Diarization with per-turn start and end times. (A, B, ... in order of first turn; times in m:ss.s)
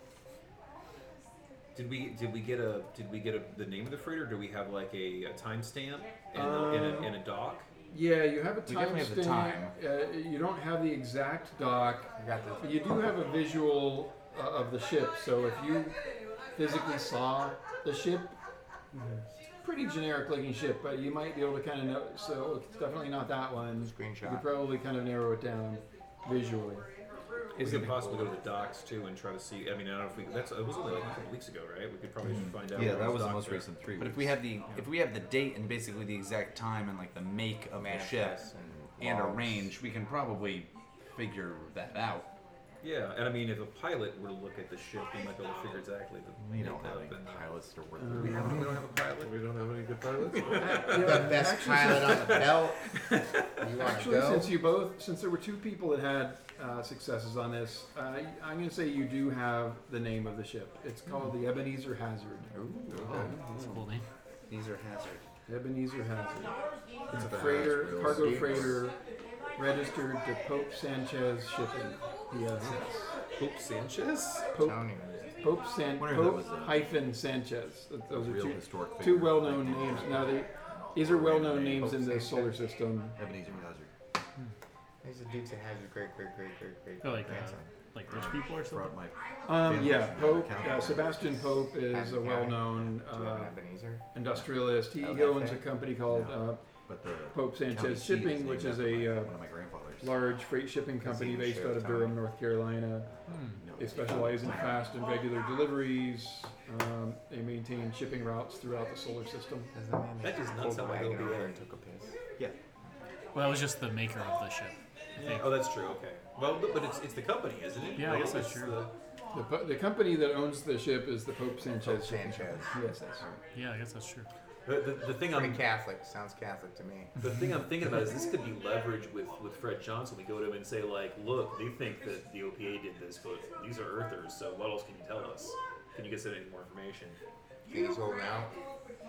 0:01.7-0:07.7 A
0:06.3-0:07.2 B
0:07.9-0:16.0 B
0:08.7-0:09.7 C
0:12.2-0:12.9 D
0:16.6-0:18.4 B
0:18.9-0:19.2 D
0:19.6-0:26.8 B
0:23.8-0:24.5 D
0:27.5-0:33.6 A
0:27.6-0:28.0 E
0:32.3-0:34.4 E
0:34.0-0:38.4 C
0:37.7-0:39.7 D
0:39.0-0:42.3 C
0:42.8-0:47.5 A
0:46.4-0:48.7 E
0:48.0-0:48.6 B
0:48.2-0:51.2 F
0:48.4-0:49.3 A
0:50.6-0:52.5 B
0:50.7-0:52.9 D
0:53.6-0:54.5 D
0:53.8-1:02.5 B
1:02.5-1:03.3 D
1:02.9-1:03.4 F
1:03.1-1:04.0 G
1:04.5-1:05.2 C
1:05.5-1:06.6 B
1:07.1-1:09.0 B
1:07.1-1:08.8 E
1:07.4-1:08.8 D
1:09.6-1:13.1 B
1:13.4-1:14.5 A
1:14.5-1:14.8 B
1:14.5-1:15.4 D
1:15.4-1:23.2 B
1:16.0-1:16.9 E
1:18.1-1:20.4 E
1:21.0-1:22.1 E
1:21.8-1:22.5 D
1:23.2-1:23.9 E
1:25.0-1:27.7 D
1:27.0-1:29.0 G
1:28.1-1:31.4 E
1:29.4-1:33.5 B
1:31.8-1:34.0 D
1:34.1-1:36.6 B
1:35.0-1:35.6 D
1:36.1-1:40.1 E
1:37.3-1:39.4 B
1:40.0-1:43.1 B
1:41.0-1:42.2 D
1:43.1-1:44.8 E
1:43.3-1:43.6 G
1:43.7-1:49.7 B
1:49.7-1:52.1 D
1:50.2-1:51.6 A
1:53.3-1:55.5 G
1:55.2-1:58.9 A
1:57.9-1:58.8 G
1:59.3-2:03.2 B
2:01.8-2:02.7 D
2:03.5-2:04.3 G
2:04.6-2:05.6 A
2:05.2-2:07.1 D
2:07.2-2:17.2 A
2:17.7-2:18.5 D